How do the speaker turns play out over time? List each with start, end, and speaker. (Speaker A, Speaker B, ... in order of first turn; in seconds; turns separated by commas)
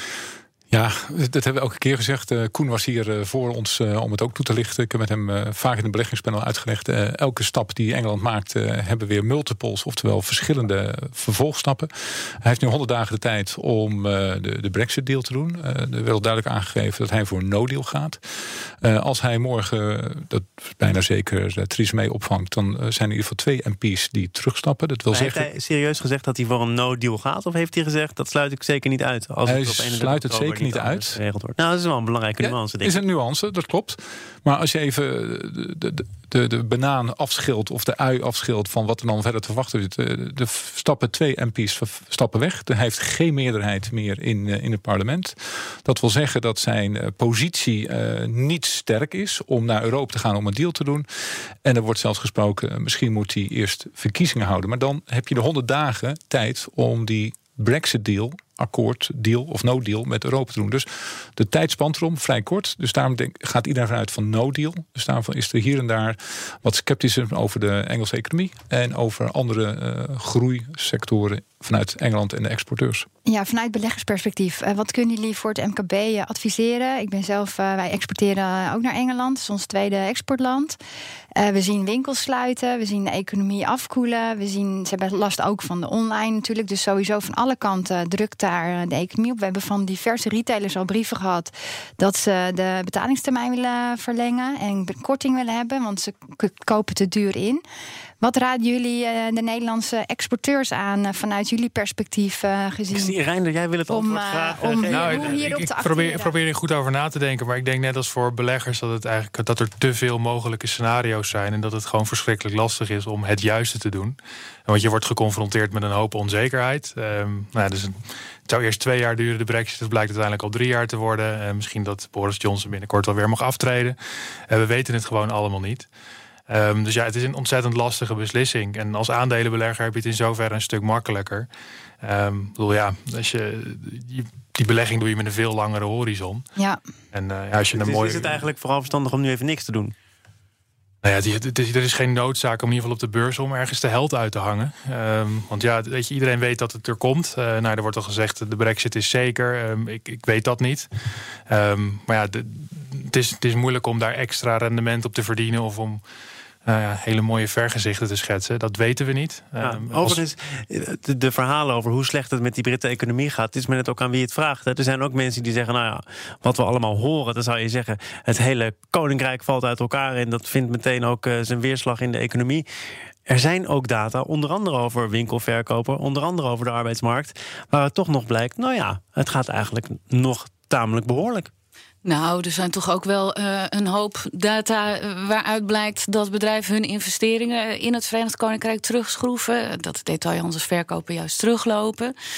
Speaker A: 0.7-18.2, Speaker A: 18.8-25.5, Speaker B: 25.1-33.0, Speaker A: 29.4-31.2, Speaker A: 32.4-51.0, Speaker A: 51.6-73.1, Speaker C: 73.2-80.8, Speaker C: 81.3-97.6, Speaker C: 98.2-103.1, Speaker B: 102.9-105.5, Speaker C: 103.9-106.3, Speaker D: 104.9-125.9, Speaker D: 126.5-131.5, Speaker D: 132.0-136.4, Speaker D: 137.1-138.4, Speaker B: 137.7-139.9, Speaker D: 141.0-150.9, Speaker D: 151.5-156.0, Speaker D: 156.6-160.2, Speaker B: 159.6-172.6, Speaker B: 173.2-181.5, Speaker E: 182.0-192.1